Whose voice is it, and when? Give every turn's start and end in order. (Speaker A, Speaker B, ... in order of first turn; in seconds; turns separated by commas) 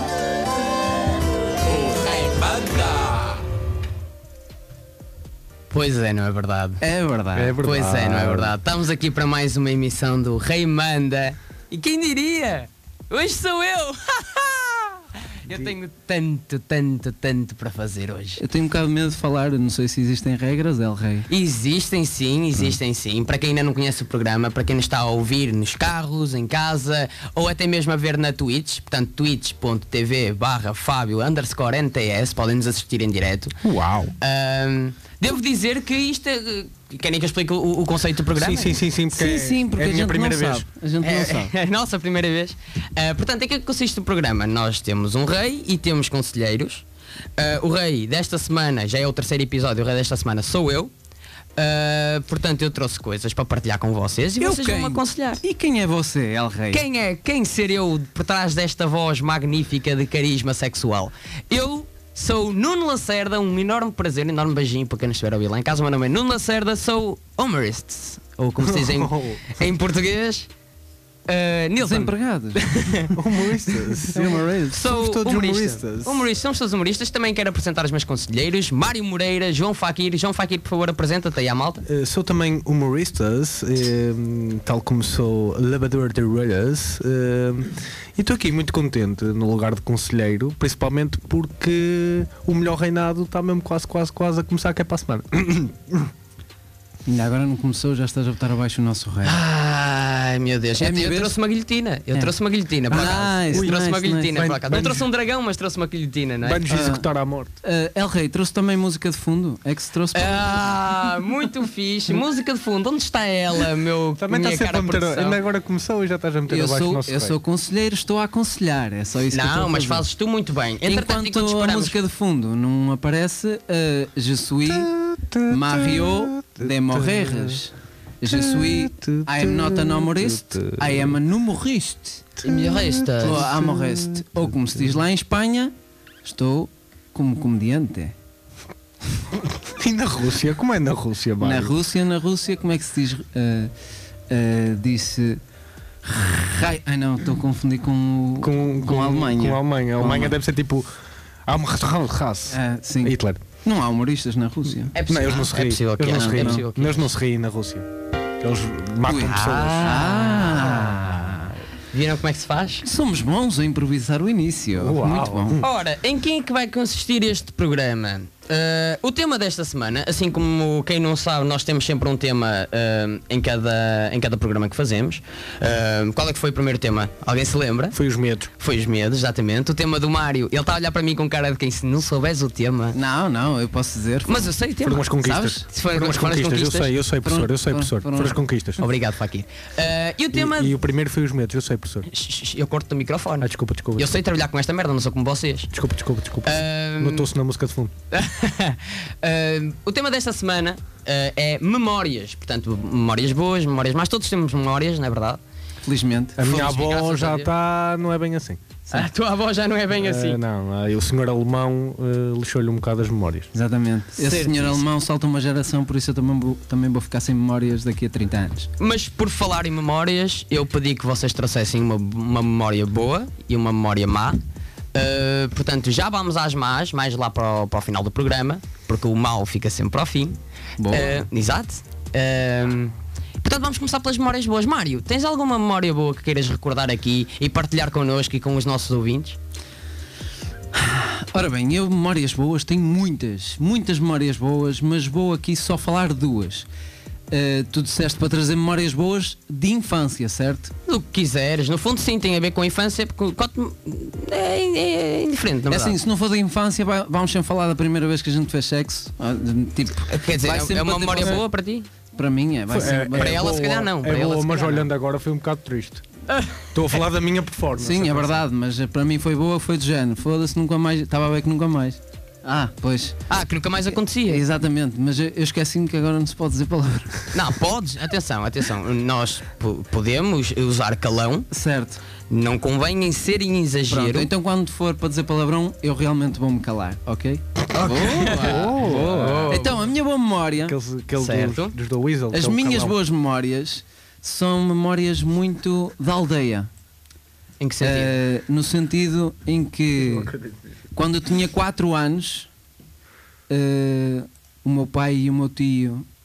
Speaker A: 5.7-6.8, Speaker B: 6.8-7.5, Speaker C: 7.3-8.5, Speaker A: 7.6-18.4, Speaker C: 15.5-15.7, Speaker B: 18.4-21.3, Speaker A: 21.3-33.6, Speaker C: 33.6-34.1, Speaker A: 34.2-38.8, Speaker C: 38.3-40.7, Speaker B: 39.1-41.5, Speaker A: 41.0-46.8, Speaker A: 47.4-50.9, Speaker A: 51.5-55.4, Speaker B: 54.4-56.8, Speaker A: 56.7-70.5, Speaker C: 68.6-69.6, Speaker A: 71.3-73.2, Speaker B: 71.8-72.6, Speaker C: 73.1-76.3, Speaker B: 74.1-74.8, Speaker A: 74.7-81.8, Speaker C: 81.8-96.1, Speaker B: 97.0-99.4, Speaker A: 99.2-106.6, Speaker B: 100.8-101.3, Speaker B: 102.9-104.3, Speaker C: 102.9-105.1, Speaker C: 106.4-107.5, Speaker B: 106.7-107.0, Speaker B: 107.6-110.6, Speaker A: 110.1-115.4, Speaker C: 114.2-117.3, Speaker B: 116.5-120.0, Speaker A: 119.3-122.0, Speaker B: 120.8-124.9, Speaker C: 124.7-127.6, Speaker B: 125.5-132.2, Speaker C: 128.3-131.2, Speaker A: 132.4-133.5, Speaker C: 132.4-134.8, Speaker B: 133.2-138.1, Speaker C: 139.7-141.8, Speaker B: 141.4-143.7, Speaker B: 144.3-145.4, Speaker B: 146.0-150.4, Speaker C: 148.4-150.9, Speaker C: 151.4-153.4, Speaker B: 152.5-154.9, Speaker A: 154.9-157.1, Speaker C: 155.1-157.9, Speaker B: 156.1-156.6, Speaker C: 158.4-160.1, Speaker B: 159.1-161.6, Speaker A: 159.2-160.8, Speaker A: 161.9-162.8, Speaker B: 162.8-165.6, Speaker C: 164.7-165.7, Speaker A: 165.6-178.0, Speaker C: 177.9-178.5, Speaker A: 178.6-183.0, Speaker B: 182.9-184.5, Speaker A: 184.2-186.9, Speaker C: 184.8-188.8, Speaker B: 185.2-185.6, Speaker B: 187.2-188.4, Speaker A: 188.8-190.7, Speaker C: 190.3-192.1, Speaker A: 192.1-195.7, Speaker C: 193.4-194.1, Speaker C: 195.7-197.9, Speaker A: 196.4-197.3, Speaker A: 198.1-205.4, Speaker B: 205.8-206.4, Speaker C: 206.4-209.0, Speaker A: 206.4-207.5, Speaker A: 208.9-210.4, Speaker C: 209.9-213.5, Speaker B: 213.5-218.7, Speaker A: 214.2-214.8, Speaker A: 218.8-224.4, Speaker A: 224.9-230.4, Speaker B: 230.8-231.2, Speaker A: 230.9-239.4, Speaker B: 240.7-246.7, Speaker B: 247.3-250.7, Speaker A: 250.9-256.0, Speaker B: 255.7-261.4, Speaker A: 260.1-261.9, Speaker B: 262.1-263.6, Speaker C: 262.7-266.0, Speaker A: 263.1-264.9, Speaker A: 266.3-266.7, Speaker C: 266.7-268.4, Speaker B: 267.8-273.2, Speaker A: 273.3-274.4, Speaker B: 274.2-277.3, Speaker A: 277.3-281.5, Speaker B: 281.5-282.0, Speaker A: 282.3-284.3, Speaker B: 283.9-290.8, Speaker A: 287.7-289.9, Speaker C: 288.3-289.6, Speaker C: 290.6-292.9, Speaker A: 291.2-291.7, Speaker B: 292.3-296.7, Speaker A: 297.6-298.2, Speaker B: 297.8-300.3, Speaker C: 300.1-300.5, Speaker B: 300.9-302.5, Speaker B: 303.5-306.1